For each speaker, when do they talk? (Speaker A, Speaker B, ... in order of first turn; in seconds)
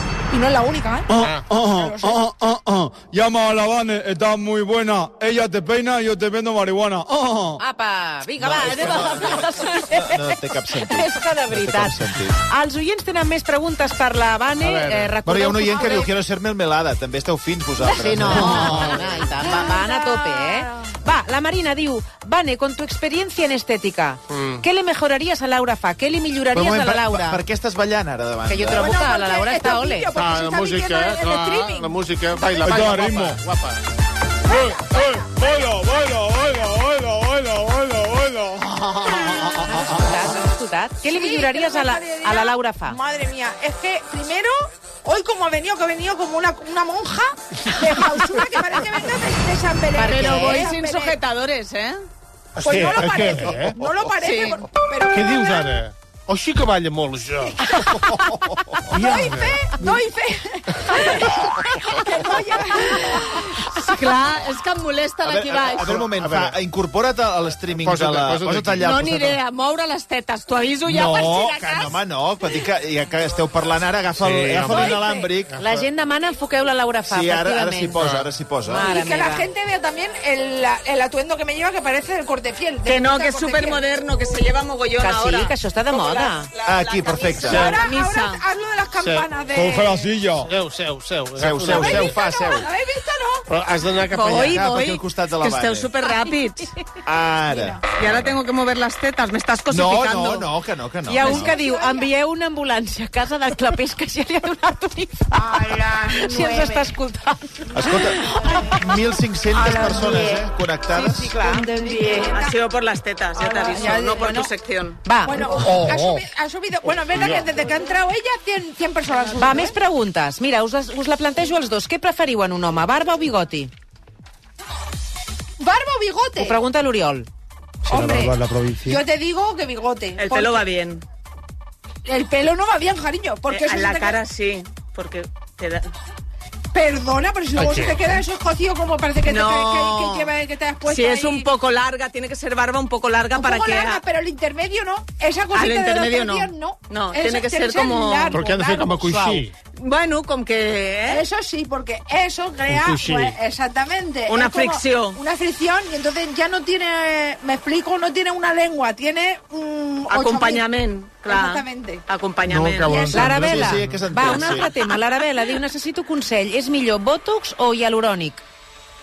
Speaker A: 0.3-2.3, 18.5-20.9, 28.7-33.0, 34.4-35.8, 39.0-39.9, 41.0-51.2, 52.6-55.8, 57.5-58.2, 58.9-63.7, 78.8-83.8, 87.2-90.1, 91.7-93.5, 97.5-97.8, 101.2-102.1, 105.3-106.9, 108.3-108.7, 109.5-110.5, 111.4-112.5, 113.4-114.5, 115.2-119.8, 125.6-126.6, 127.9-130.6, 132.1-134.2, 136.7-141.5, 143.3-149.4, 151.1-160.7, 161.3-162.0, 162.8-163.6
Speaker B: 1.2-1.5, 14.6-15.2, 24.3-24.6, 30.1-33.8, 52.6-53.9, 55.1-57.7, 58.9-60.0, 65.8-66.6, 67.8-69.1, 74.2-75.8, 78.0-78.3, 87.5-87.8, 89.0-89.3, 90.4-92.3, 93.5-94.6, 115.6-116.2, 117.1-117.5, 127.9-129.0, 137.6-138.2, 148.3-149.5, 152.7-153.4, 162.5-164.4
Speaker C: 1.6-7.6, 32.6-33.4, 34.5-39.3, 89.5-90.5
Speaker D: 7.6-16.1, 17.8-27.4, 28.5-30.1, 39.0-43.0, 50.0-50.7, 75.6-78.0, 78.7-79.5, 85.0-86.5, 101.1-108.8, 110.9-112.3, 115.0-115.7, 119.4-123.7, 126.4-127.3, 163.1-168.4
Speaker E: 8.4-12.4, 15.2-19.0, 26.5-29.0, 65.2-69.4, 70.9-75.6, 77.1-78.9, 86.7-87.8, 91.4-92.7, 94.3-95.9, 97.0-98.4, 99.7-101.5, 107.7-111.3, 163.3-164.7
Speaker F: 50.0-52.0, 54.2-54.7, 62.8-66.0, 68.8-72.0, 82.8-88.4, 94.1-96.7, 98.0-100.5, 112.3-115.0, 130.2-131.0, 133.5-135.9, 139.2-140.3, 140.9-144.0, 145.5-148.4, 149.8-151.3, 154.3-155.2, 160.1-163.0